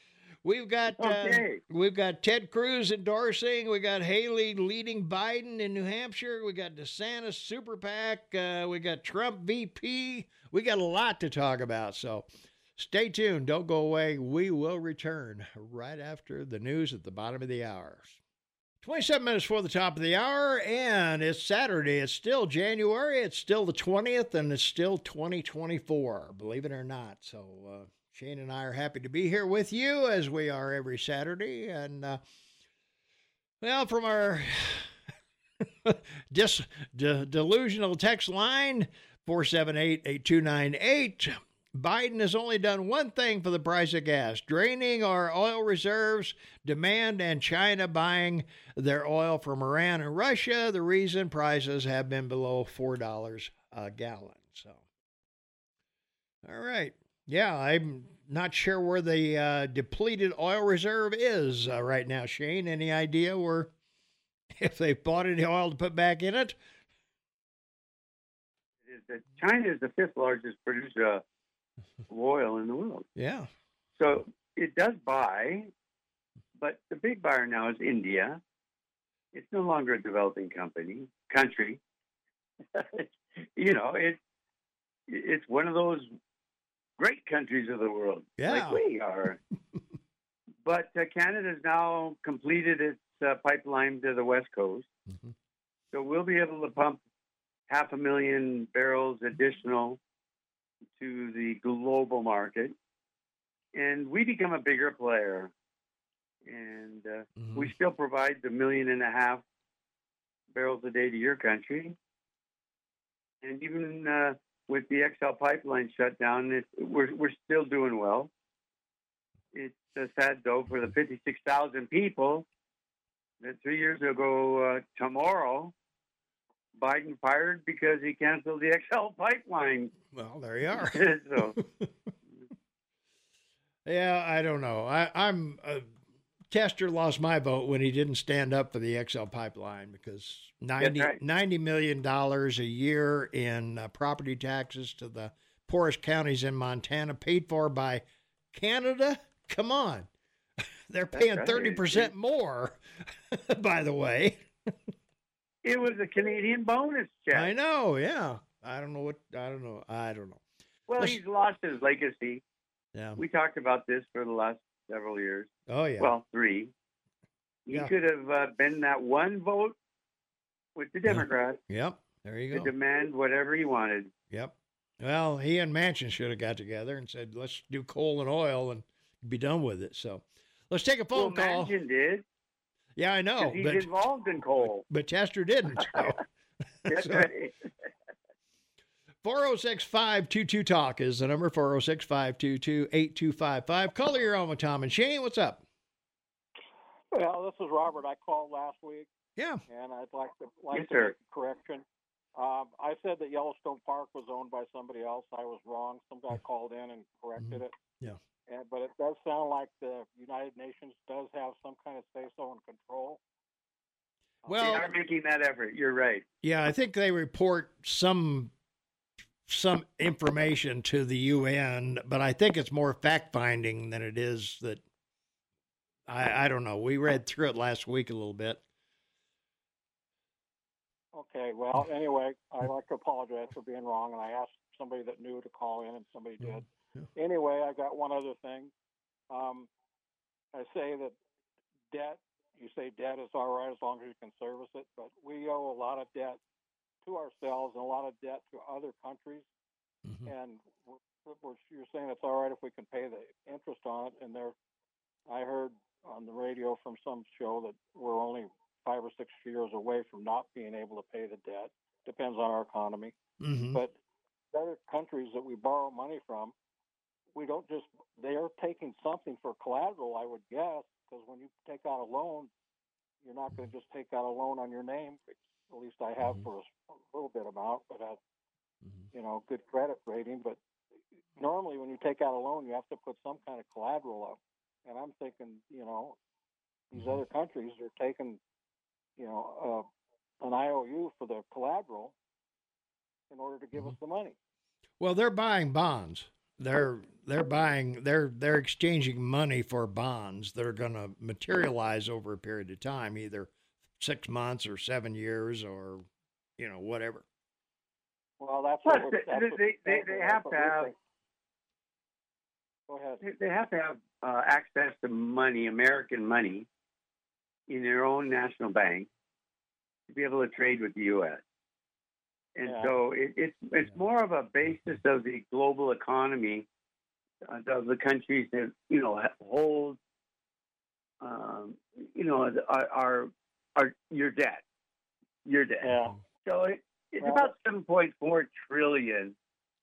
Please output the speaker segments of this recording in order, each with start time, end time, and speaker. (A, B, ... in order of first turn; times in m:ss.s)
0:00.4-0:18.2 A
0:00.9-0:01.6 B
0:18.8-0:32.2 A
0:33.6-0:34.9 A
0:35.6-0:54.8 A
0:56.4-1:03.7 A
1:04.6-1:06.6 A
1:08.8-1:11.2 B
1:12.1-1:13.0 B
1:13.2-1:13.5 A
1:14.0-1:15.7 B
1:16.6-1:18.4 B
1:19.3-1:21.8 B
1:22.7-1:24.2 B
1:25.1-1:26.1 B
1:27.0-1:29.4 B
1:28.4-1:28.8 A
1:30.6-1:34.9 B
1:35.9-1:37.0 B
1:37.7-1:40.0 B
1:41.0-1:42.7 B
1:43.7-1:45.5 B
1:46.4-1:49.4 B
1:47.4-1:47.7 A
1:50.5-1:52.0 B
1:53.4-1:58.3 B
1:59.5-2:02.4 B
2:03.4-2:05.7 B
2:06.8-2:09.9 B
2:10.1-2:11.9 A
2:10.8-2:11.5 B
2:13.8-2:15.9 A
2:16.5-2:30.1 A
2:20.8-2:21.2 B
2:30.9-2:34.5 A
2:31.1-2:32.1 B
2:35.6-2:37.5 B
2:37.3-2:40.4 A
2:40.9-2:42.4 B
2:42.9-2:43.2 A
2:43.2-2:46.7 B
2:45.7-2:46.1 A
2:47.6-2:49.8 B
2:50.8-2:51.6 B
2:51.1-2:52.7 A
2:52.5-2:54.1 B
2:54.3-3:01.7 A
3:01.1-3:02.2 B
3:03.0-3:03.9 A
3:03.4-3:04.8 B
3:04.8-3:06.2 A
3:06.8-3:07.3 A
3:06.9-3:07.7 B
3:09.2-3:15.6 A
3:17.1-3:19.1 C
3:19.4-3:19.6 A
3:19.7-3:21.8 C
3:20.7-3:21.1 B
3:22.4-3:27.7 C
3:27.4-3:28.2 A
3:28.5-3:33.2 C
3:34.4-3:34.8 C
3:34.4-3:34.9 A
3:34.5-3:36.2 B
3:36.4-3:38.5 A
3:39.5-3:44.8 A
3:46.1-3:48.6 A
3:51.1-3:58.7 C
3:56.4-3:57.1 A
3:59.3-3:59.7 C
4:00.5-4:01.2 C
4:01.9-4:06.4 C
4:07.0-4:09.4 C
4:10.0-4:10.3 A
4:10.2-4:14.5 C
4:15.3-4:23.1 C
4:23.4-4:23.8 A
4:24.5-4:26.5 C
4:27.3-4:32.5 C
4:33.2-4:38.2 C
4:39.1-4:40.6 C
4:41.4-4:46.2 C
4:46.9-4:48.4 C
4:46.9-4:47.2 A
4:49.2-4:49.9 C
4:50.4-4:52.1 C
4:53.3-4:54.4 C
4:55.0-5:06.0 A
5:06.6-5:07.2 A
5:08.4-5:10.9 C
5:08.8-5:10.9 B
5:12.9-5:13.2 C
5:13.2-5:16.7 B
5:17.7-5:19.1 B
5:20.1-5:21.4 B
5:22.6-5:26.7 B
5:22.6-5:23.0 C
5:27.4-5:30.0 B
5:31.2-5:34.6 B
5:35.4-5:35.9 B
5:35.8-5:36.2 C
5:36.4-5:39.4 B
5:37.2-5:37.5 C